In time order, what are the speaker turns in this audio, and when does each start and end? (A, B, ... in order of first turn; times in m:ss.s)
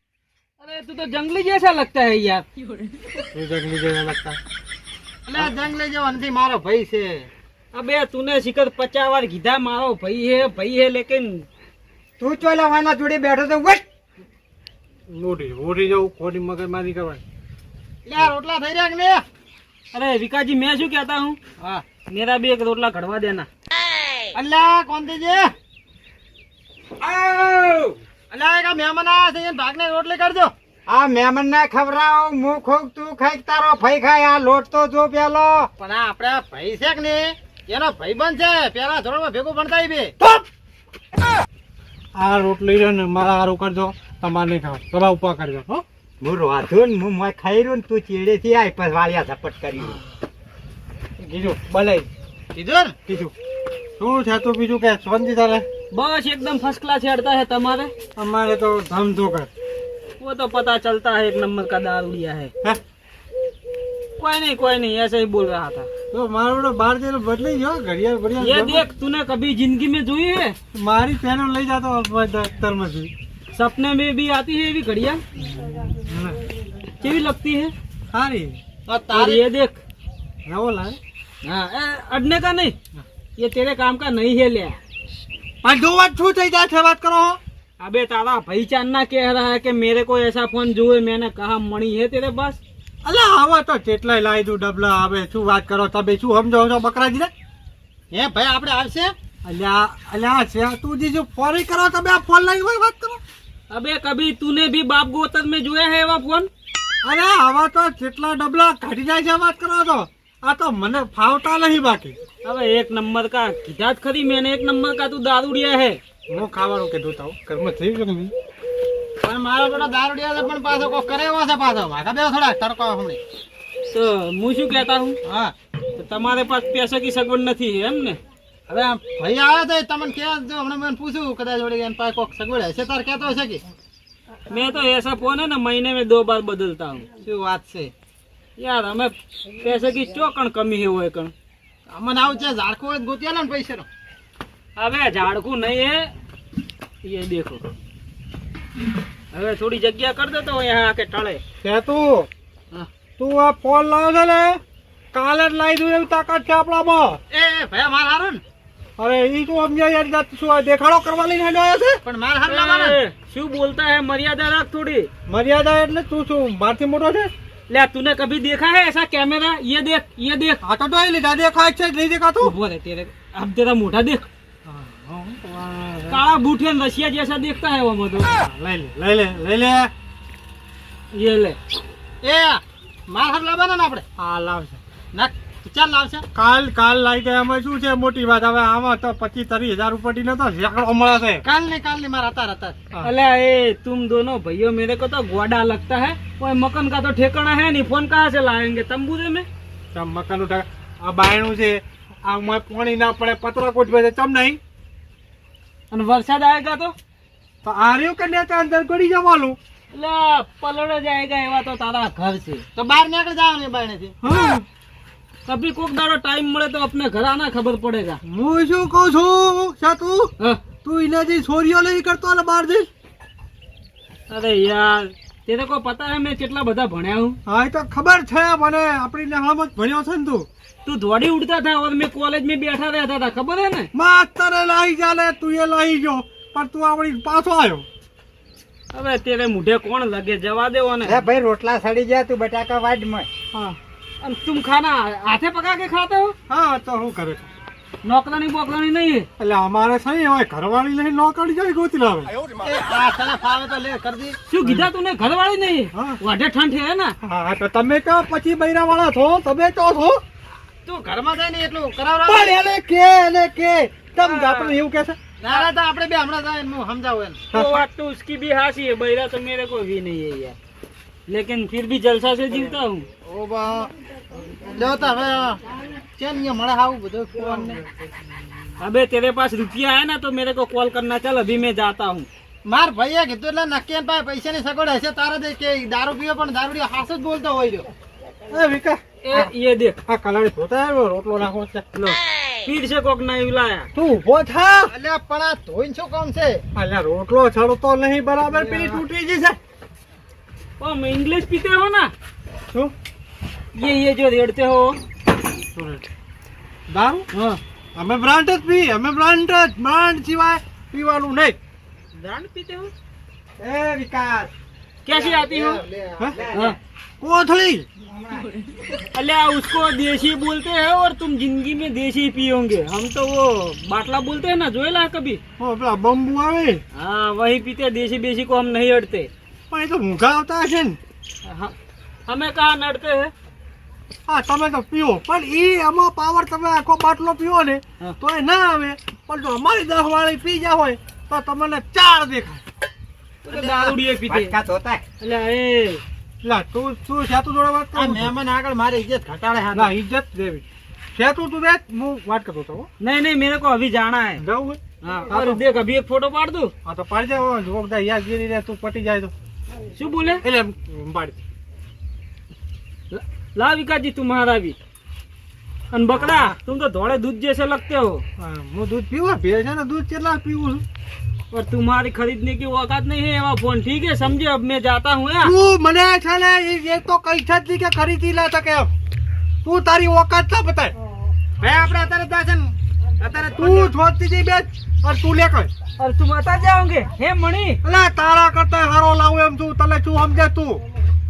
0:00.6-0:03.0 A
0:03.3-0:04.4 B
0:05.2-0:07.3 C
0:07.7-0:11.4 A
0:12.2-0:13.8 D
0:15.1-0:17.2 B
0:18.1-0:19.2 C
0:19.9-0:21.4 A
0:21.6-0:21.8 C
0:22.1-0:23.5 A
0:24.3-0:25.5 C
0:27.0-0:28.0 D
0:28.3-0:30.5 C
0:30.9-0:35.7 D
0:35.8-0:40.1 C
0:42.2-0:45.8 B
0:46.2-0:50.0 D
0:51.2-0:52.1 B
0:52.6-0:53.0 C
0:53.1-0:53.3 B
0:54.0-0:55.7 B
0:55.9-0:57.9 A
0:58.2-0:59.5 B
1:00.2-1:02.5 A
1:04.2-1:05.9 A
1:06.1-1:08.8 B
1:08.4-1:10.6 A
1:10.7-1:13.1 B
1:13.5-1:15.2 A
1:15.5-1:16.4 B
1:17.0-1:17.7 A
1:18.1-1:18.6 B
1:18.8-1:19.4 C
1:19.1-1:19.8 A
1:20.4-1:21.0 B
1:21.4-1:22.8 A
1:23.4-1:24.8 A
1:25.6-1:27.4 B
1:27.8-1:32.6 A
1:33.0-1:37.3 B
1:38.1-1:39.1 C
1:39.4-1:43.2 B
1:43.7-1:46.5 A
1:47.0-1:52.2 B
1:52.4-1:56.0 A
1:56.3-1:58.3 B
1:59.2-2:03.2 C
2:03.9-2:05.2 A
2:05.2-2:05.5 C
2:06.0-2:08.2 A
2:08.7-2:13.6 C
2:14.5-2:17.1 A
2:17.2-2:17.9 C
2:18.6-2:21.3 A
2:21.9-2:23.8 C
2:24.8-2:26.1 A
2:27.0-2:27.7 A
2:29.3-2:31.4 A
2:31.6-2:32.3 B
2:33.2-2:34.6 B
2:35.1-2:37.2 B
2:37.3-2:38.4 C
2:39.0-2:42.0 B
2:42.0-2:43.0 C
2:42.5-2:45.1 A
2:45.3-2:47.3 B
2:47.7-2:50.6 A
2:50.6-2:52.5 B
2:52.4-2:54.2 A
2:54.6-2:56.2 B
2:56.1-2:58.3 A
2:58.5-2:59.9 B
3:01.1-3:01.6 A
3:02.2-3:04.0 C
3:04.2-3:04.8 B
3:05.1-3:06.3 C
3:06.3-3:11.4 B
3:11.4-3:12.8 C
3:13.0-3:19.5 A
3:19.9-3:24.6 B
3:25.9-3:26.9 A
3:27.6-3:29.6 B
3:29.9-3:32.6 A
3:32.7-3:34.2 C
3:34.2-3:34.6 B
3:35.4-3:38.2 A
3:38.2-3:40.3 B
3:40.4-3:40.7 A
3:40.8-3:42.9 B
3:44.3-3:47.4 A
3:47.4-3:50.5 B
3:50.8-3:53.9 A
3:53.9-3:57.8 B
3:58.9-4:01.2 A
4:01.0-4:03.3 D
4:04.2-4:06.4 A
4:06.5-4:07.5 B
4:08.0-4:09.3 A
4:09.4-4:12.5 B
4:12.6-4:14.4 C
4:14.5-4:17.2 A
4:15.9-4:16.2 B
4:17.2-4:20.2 B
4:20.8-4:22.6 C
4:22.3-4:25.2 B
4:24.2-4:24.8 A
4:25.4-4:27.4 C
4:27.5-4:27.8 B
4:27.5-4:30.6 A
4:31.3-4:33.1 A
4:33.2-4:33.9 C
4:34.5-4:35.6 C
4:36.2-4:37.8 C
4:37.4-4:37.7 B
4:38.8-4:42.3 A
4:42.6-4:47.9 C
4:48.5-4:49.4 B
4:49.2-4:50.0 A
4:50.1-4:51.9 B
4:52.0-4:53.9 A
4:53.9-4:54.9 B
4:54.9-4:56.6 C
4:56.7-4:59.6 B
4:58.5-4:59.0 C
5:00.8-5:02.1 A
5:03.7-5:05.0 A
5:05.7-5:06.1 B
5:06.9-5:07.3 B
5:07.3-5:07.6 A
5:07.9-5:11.6 B
5:12.2-5:12.9 A
5:13.6-5:14.5 D
5:15.0-5:15.8 A
5:15.1-5:16.6 C
5:16.3-5:16.7 D
5:16.5-5:16.8 A
5:17.2-5:17.8 B
5:18.0-5:18.5 D
5:18.9-5:25.4 A
5:25.6-5:26.8 B
5:26.9-5:29.3 A
5:29.7-5:31.0 B
5:31.4-5:31.7 A
5:32.3-5:33.3 A
5:34.3-5:42.6 B
5:43.4-5:44.5 A
5:43.5-5:43.9 C
5:44.1-5:45.0 D
5:45.2-5:46.0 A
5:46.4-5:48.3 B
5:47.9-5:49.9 C
5:49.7-5:52.9 B
5:53.0-5:54.4 A
5:54.4-5:55.6 B
5:55.0-5:56.7 A
5:56.8-5:59.3 B
5:59.9-6:00.4 A
6:00.4-6:01.4 B
6:03.1-6:04.8 A
6:05.9-6:08.2 A
6:06.1-6:06.6 B
6:08.4-6:10.8 B
6:11.5-6:15.6 A
6:15.4-6:18.9 B
6:19.6-6:20.9 B
6:21.6-6:24.0 C
6:23.6-6:25.7 B
6:26.0-6:27.8 A
6:27.8-6:30.8 B